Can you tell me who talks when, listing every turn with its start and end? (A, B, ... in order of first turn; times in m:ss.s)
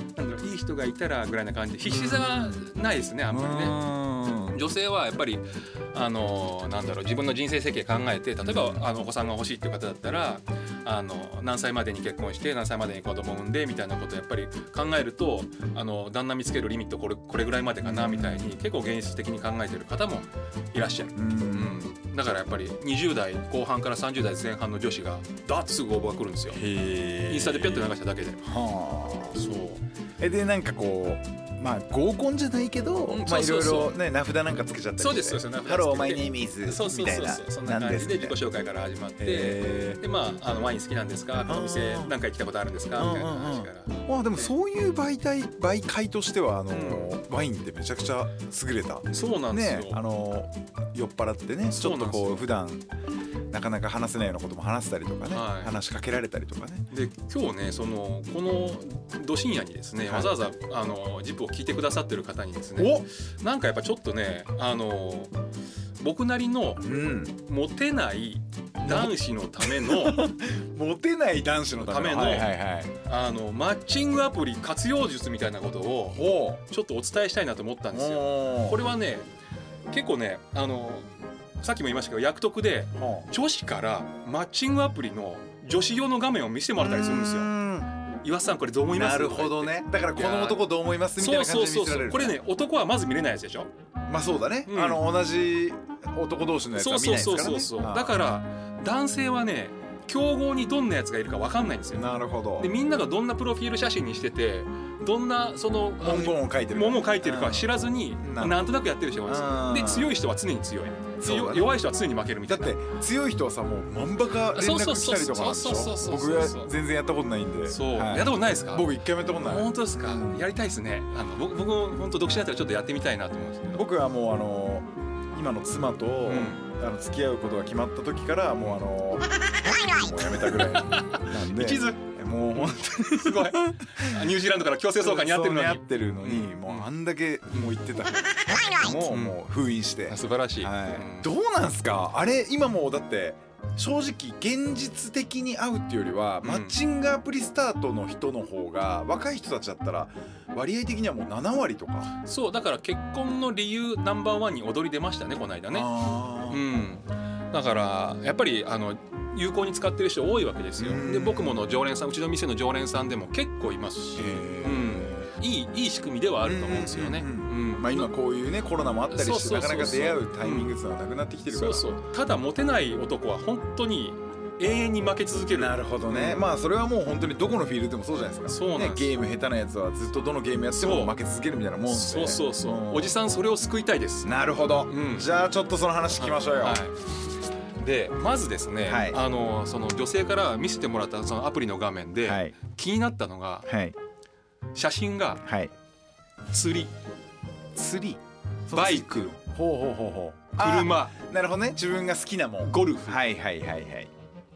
0:00.2-0:03.8 A
0:01.8-0:02.6 B
0:03.3-0:04.6 B
0:04.5-0:26.6 A
0:08.4-0:08.9 B
0:17.8-0:18.6 B
0:21.1-0:21.9 B
0:26.5-0:29.4 B
0:27.3-0:28.4 A
0:29.4-0:29.8 A
0:30.2-0:38.4 B
0:33.1-0:34.0 A
0:35.0-0:44.5 A
0:39.2-0:40.0 B
0:41.4-0:42.1 B
0:42.9-0:52.9 B
0:46.7-0:47.1 A
0:49.1-0:50.0 A
0:51.7-0:52.4 A
0:53.5-0:56.9 B
0:55.3-0:55.8 A
0:56.9-1:05.3 A
1:02.8-1:03.1 B
1:06.0-1:10.3 A
1:06.8-1:07.3 B
1:08.8-1:12.9 B
1:11.8-1:12.5 A
1:13.0-1:19.3 A
1:16.1-1:16.6 B
1:17.9-1:18.8 B
1:19.9-1:27.6 A
1:23.0-1:23.3 B
1:26.8-1:27.9 B
1:28.2-1:33.7 A
1:28.9-1:32.4 B
1:34.1-1:38.1 B
1:34.7-1:35.0 A
1:36.8-1:52.8 A
1:41.9-1:42.7 B
1:46.0-1:48.8 B
1:49.3-1:50.1 B
1:51.2-1:51.8 B
1:52.4-2:00.4 B
1:54.5-1:56.7 A
1:57.6-2:03.8 A
2:03.7-2:14.3 B
2:06.2-2:06.6 A
2:10.5-2:16.9 A
2:15.0-2:32.1 B
2:18.8-2:19.4 A
2:20.1-2:21.3 A
2:26.4-2:26.8 A
2:32.2-2:35.9 A
2:35.7-2:36.6 B
2:36.5-2:48.1 A
2:40.8-2:41.7 B
2:44.2-2:45.3 B
2:46.4-2:51.9 B
2:49.1-2:50.7 A
2:51.5-2:56.5 A
2:55.5-3:03.1 B
2:58.5-2:59.1 A
3:00.7-3:01.1 A
3:01.9-3:04.4 A
3:04.2-3:06.8 B
3:04.9-3:05.3 A
3:06.1-3:07.0 A
3:07.8-3:13.7 A
3:08.8-3:09.2 B
3:12.2-3:12.6 B
3:13.6-3:14.0 B
3:14.8-3:15.4 A
3:15.4-3:15.7 B
3:16.5-3:16.9 A
3:17.8-3:24.1 B
3:18.7-3:19.4 A
3:20.6-3:21.1 A
3:22.6-3:23.2 A